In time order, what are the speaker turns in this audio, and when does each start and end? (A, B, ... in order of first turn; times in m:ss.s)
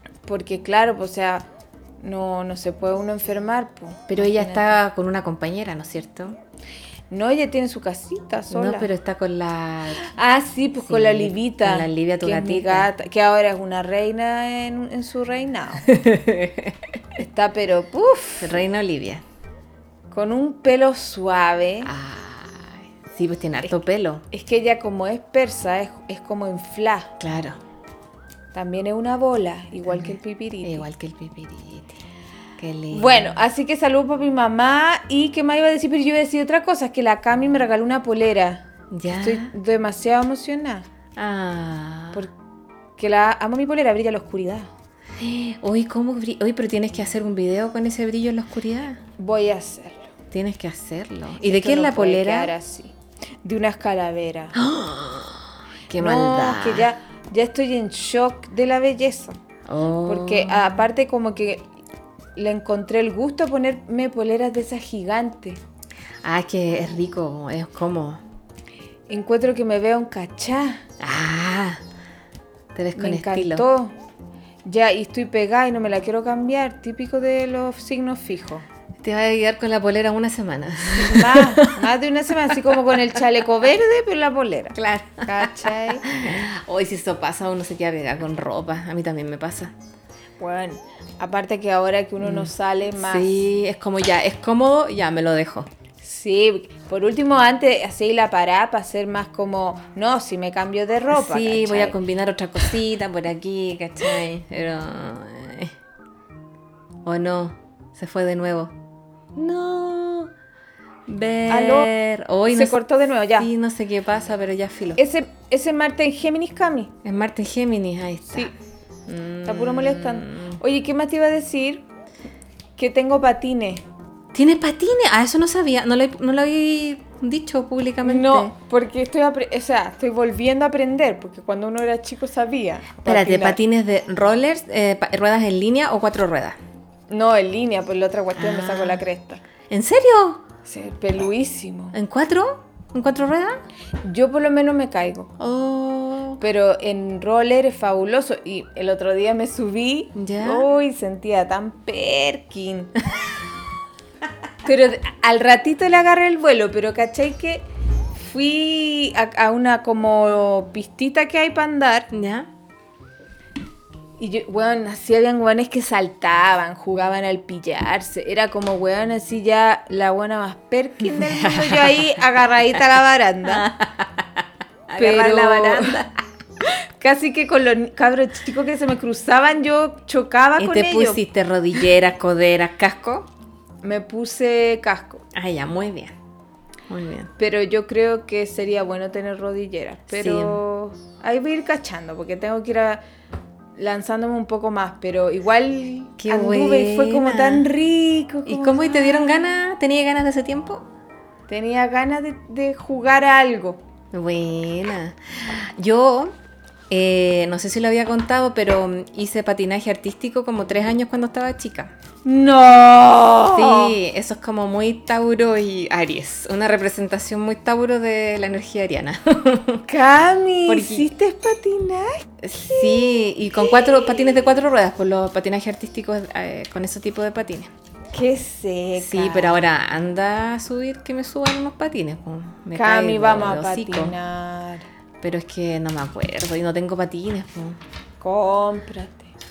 0:00.3-0:01.5 A
0:02.0-0:04.8 A
0:04.1-0:06.4 B
0:07.1-0:08.9 A
0:08.5-0:10.1 B
0:10.0-0:16.0 A
0:10.8-0:12.9 B
0:15.8-0:16.8 B
0:17.2-0:18.6 A
0:18.4-0:19.2 B
0:20.1-0:21.9 A
0:21.8-0:24.2 B
0:24.3-0:27.1 A
0:27.2-0:27.6 B
0:28.5-0:30.9 A
0:29.9-0:32.0 B
0:32.6-0:33.3 B
0:32.9-0:40.9 A
0:38.9-0:39.5 B
0:41.2-0:42.3 B
0:43.0-0:44.7 A
0:45.2-0:49.0 B
0:49.2-0:50.1 A
0:50.3-0:52.5 B
0:51.4-0:54.6 A
0:54.6-0:56.9 B
0:56.0-0:59.4 A
0:59.7-1:00.8 B
1:00.0-1:01.7 A
1:02.4-1:05.6 A
1:06.2-1:08.2 B
1:09.1-1:10.8 A
1:11.0-1:11.8 B
1:12.7-1:13.7 B
1:13.0-1:13.9 A
1:14.6-1:18.6 A
1:19.0-1:21.8 B
1:20.9-1:26.1 A
1:22.5-1:23.2 B
1:24.8-1:29.7 B
1:30.4-1:33.4 A
1:32.2-1:35.7 B
1:36.0-1:42.0 A
1:41.1-1:45.8 B
1:47.0-1:48.8 B
1:49.4-1:50.3 B
1:51.1-1:52.8 B
1:51.5-1:51.9 A
1:52.5-1:53.5 A
1:53.4-1:55.0 B
1:55.0-1:56.9 A
1:57.0-1:58.5 B
1:59.1-2:00.6 B
1:59.4-2:01.8 A
2:02.8-2:03.8 A
2:04.3-2:08.5 B
2:08.0-2:13.6 A
2:13.0-2:16.6 B
2:17.1-2:19.4 A
2:18.4-2:19.0 B
2:19.7-2:20.4 B
2:20.6-2:22.0 A
2:21.9-2:23.6 B
2:24.0-2:25.3 A
2:25.4-2:26.4 B
2:26.4-2:33.0 A
2:30.2-2:30.7 B
2:34.6-2:42.1 A
2:42.1-2:42.5 B
2:44.2-2:53.7 A
2:51.0-2:52.2 B
2:53.4-2:56.2 B
2:55.0-2:56.0 A
2:56.6-3:01.2 A
3:00.6-3:03.3 B
3:03.8-3:05.2 A
3:05.3-3:06.2 B
3:06.9-3:07.3 B
3:07.4-3:13.0 A
3:10.1-3:10.6 B
3:13.8-3:19.4 A
3:16.2-3:17.7 B
3:18.4-3:20.9 B
3:21.5-3:23.8 A
3:24.1-3:26.3 B
3:26.9-3:31.9 B
3:32.2-3:34.0 A
3:33.5-3:39.9 B
3:39.9-3:44.4 A
3:40.7-3:41.1 B
3:42.4-3:47.7 B
3:48.1-3:49.6 A
3:49.0-3:54.2 B
3:52.8-3:54.9 A
3:55.2-3:57.8 B
3:58.2-3:59.3 A